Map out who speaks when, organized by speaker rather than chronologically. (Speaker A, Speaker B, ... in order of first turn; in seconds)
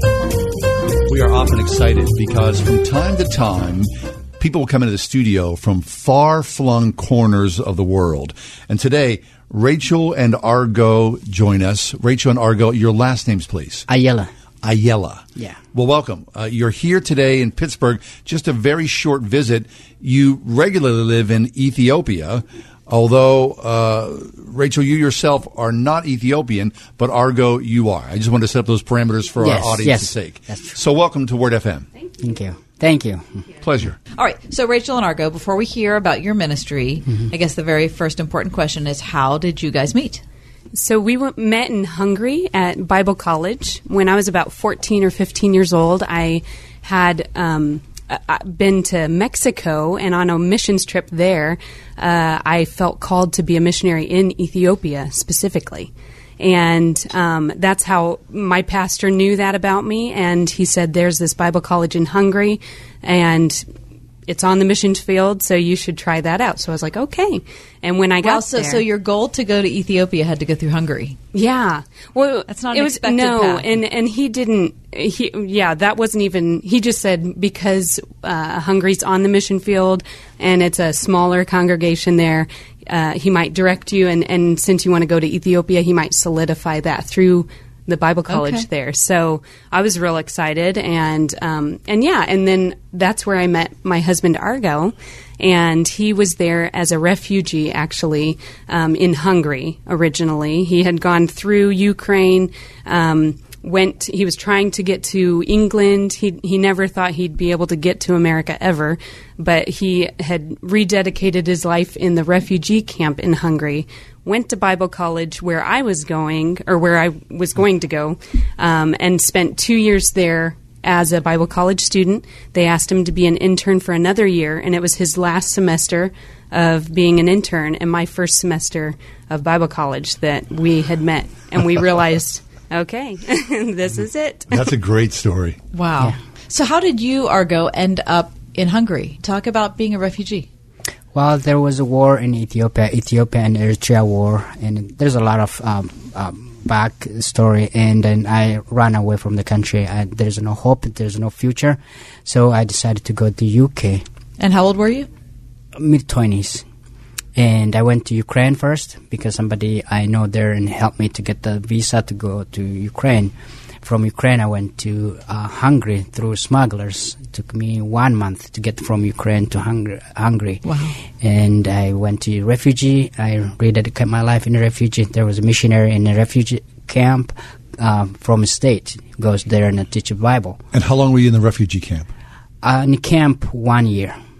Speaker A: 1.1-13.8, 14.6-31.9, 33.6-34.0, 134.5-135.6, 180.7-182.1
Speaker B: 13.9-14.3, 29.4-30.8, 32.2-33.5, 141.1-154.0, 155.8-156.6, 157.3-170.6, 171.2-180.6, 182.6-184.2
Speaker C: 34.1-40.2, 68.2-71.2, 72.5-73.8, 88.3-88.7, 135.7-140.5, 154.4-155.1, 170.6-170.9
Speaker D: 40.7-63.6, 64.3-68.8, 71.3-134.6